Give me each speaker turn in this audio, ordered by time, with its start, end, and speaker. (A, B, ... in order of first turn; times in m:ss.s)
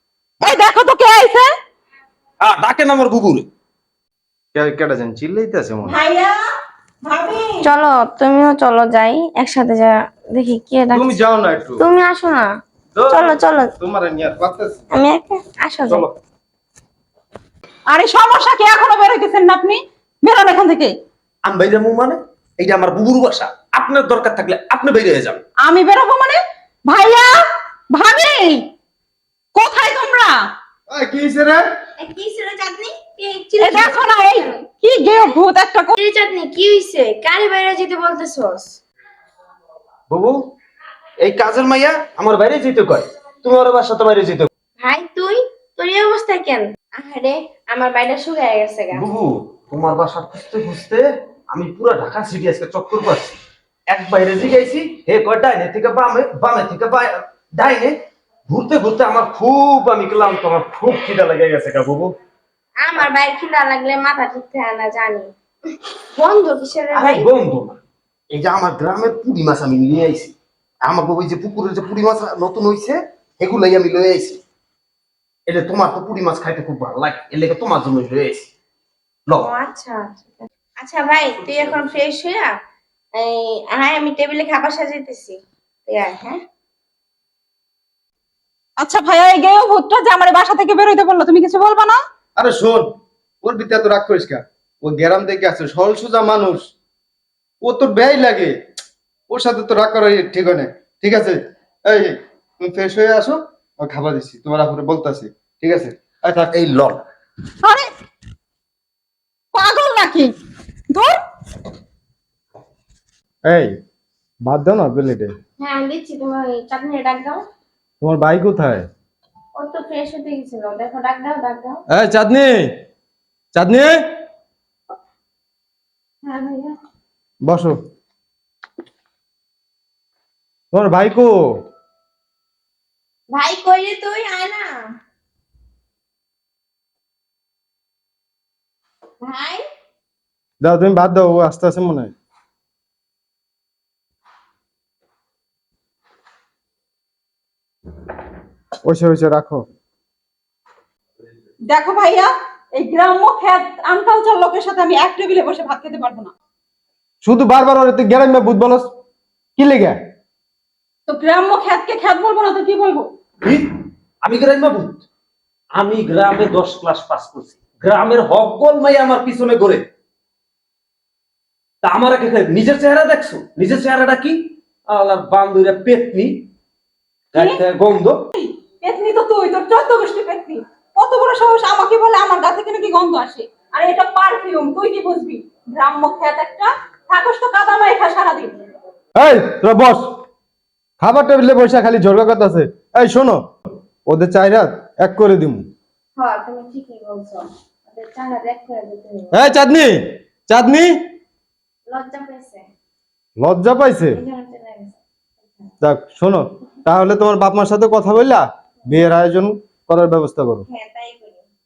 0:00.4-0:01.5 A
0:02.4-0:03.5 B
0:04.6-0:06.0 C
0:05.9-0:06.4 A
0:07.0-0:07.7 A
0:07.6-0:11.2 D
0:10.9-0:11.8 C
0:11.8-0:12.5 D
0:13.1-0:13.7 D
0:13.8-0:14.9 C
0:14.9-0:16.1 D
0:17.9-0:20.9 A
0:21.4-0:25.4 B
0:25.6-0:28.7 A
0:29.6-0:30.4 A
0:30.9-0:31.6 C
0:32.0-0:34.6 D
0:33.6-0:35.9 A
0:36.0-0:38.8 D
0:40.1-0:40.4 B
0:41.2-0:44.5 B
0:44.8-0:49.1 D
0:48.9-0:53.4 B
0:53.9-0:58.0 B
0:58.5-1:02.1 B
1:02.8-1:05.3 D
1:06.2-1:07.3 D
1:06.9-1:07.8 B
1:08.3-1:14.4 B
1:15.5-1:18.5 B
1:19.4-1:22.5 D
1:23.2-1:26.4 D
1:28.8-1:32.0 A
1:32.4-1:32.9 C
1:33.4-1:36.7 C
1:37.6-1:38.5 C
1:39.3-1:46.9 C
1:47.6-1:47.9 A
1:49.5-1:50.3 A
1:50.9-1:51.2 A
1:53.5-1:53.8 C
1:54.4-1:55.3 C
1:55.6-1:57.4 D
1:58.0-1:58.9 C
1:59.6-2:01.8 D
2:01.9-2:02.8 C
2:03.5-2:04.0 C
2:06.2-2:06.8 A
2:07.4-2:07.8 C
2:10.7-2:11.5 C
2:13.3-2:14.8 D
2:19.2-2:19.6 D
2:20.6-2:22.1 C
2:28.8-2:29.6 C
2:31.7-2:36.3 A
2:37.2-2:38.9 C
2:39.6-2:40.0 C
2:41.1-2:43.1 A
2:43.4-2:43.7 B
2:44.2-2:45.0 B
2:45.7-2:49.9 B
2:51.8-2:56.5 B
2:57.3-2:58.2 B
2:58.4-3:08.6 A
3:09.2-3:10.1 C
3:11.0-3:13.4 C
3:14.1-3:15.6 C
3:16.2-3:19.3 D
3:19.3-3:20.9 C
3:21.9-3:22.7 D
3:23.4-3:24.2 C
3:24.1-3:25.0 D
3:25.8-3:30.6 C
3:30.7-3:31.4 D